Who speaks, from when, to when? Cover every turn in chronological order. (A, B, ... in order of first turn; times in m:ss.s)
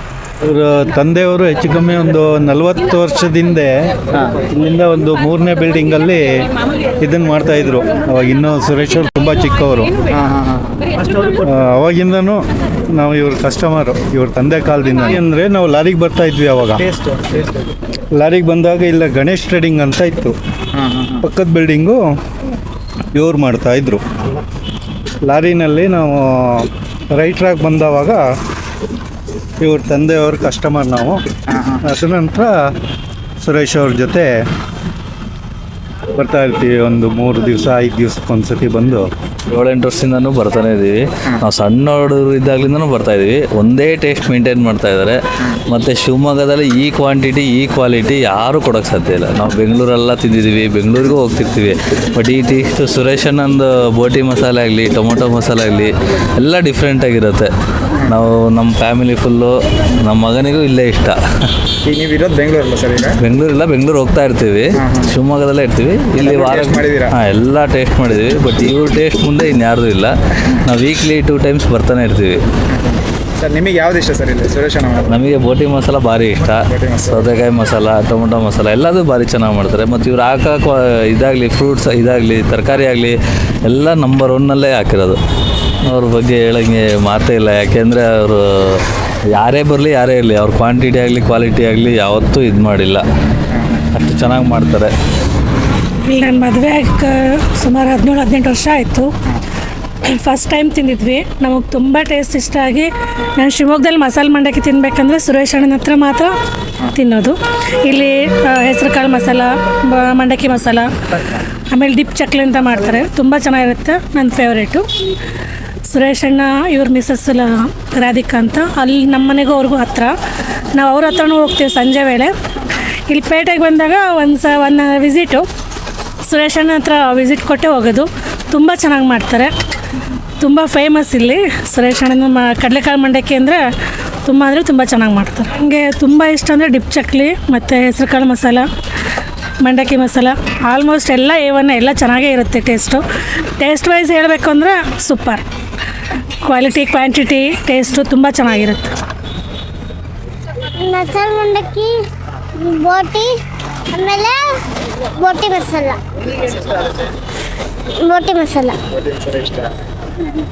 0:00.4-0:03.9 A
0:04.5-0:06.5 A
0:07.0-0:09.9 A
0:10.1-0:10.9 B
0:11.4-0:16.8 A
0:16.8-0:17.7 B
0:18.1-0:20.4 A
0:20.7-0:21.3 B
0:21.2-0:22.1 A
0:23.1-0:24.0 A
0:25.2-0:28.2 A
0:29.6-0:31.2 A
0:31.5-0:31.8 B
0:31.8-0:32.6 A
0:33.4-0:34.3 A
0:36.2-0:39.1 A
0:39.5-0:57.5 C
0:58.1-1:01.2 C
1:01.8-1:03.2 B
1:03.2-1:12.5 C
1:04.8-1:05.1 B
1:06.2-1:07.1 B
1:12.7-1:15.2 B
1:15.1-1:25.2 C
1:16.6-1:17.3 B
1:25.8-1:28.8 C
1:29.4-1:33.0 C
1:33.5-1:33.8 B
1:33.9-1:34.9 C
1:36.0-1:39.1 D
1:40.0-1:46.3 D
1:46.9-1:50.9 D
1:51.7-1:54.9 D
1:55.9-2:00.1 D
2:00.7-2:02.3 D
2:03.1-2:05.5 D
2:06.2-2:09.5 D
2:10.4-2:13.6 D
2:14.3-2:18.7 D
2:19.6-2:23.0 D
2:23.6-2:25.4 D
2:26.4-2:29.0 D
2:30.8-2:32.0 E
2:32.6-2:33.4 E
2:33.9-2:34.6 E
2:35.1-2:36.0 E
2:38.0-2:38.8 E
2:38.9-2:39.7 B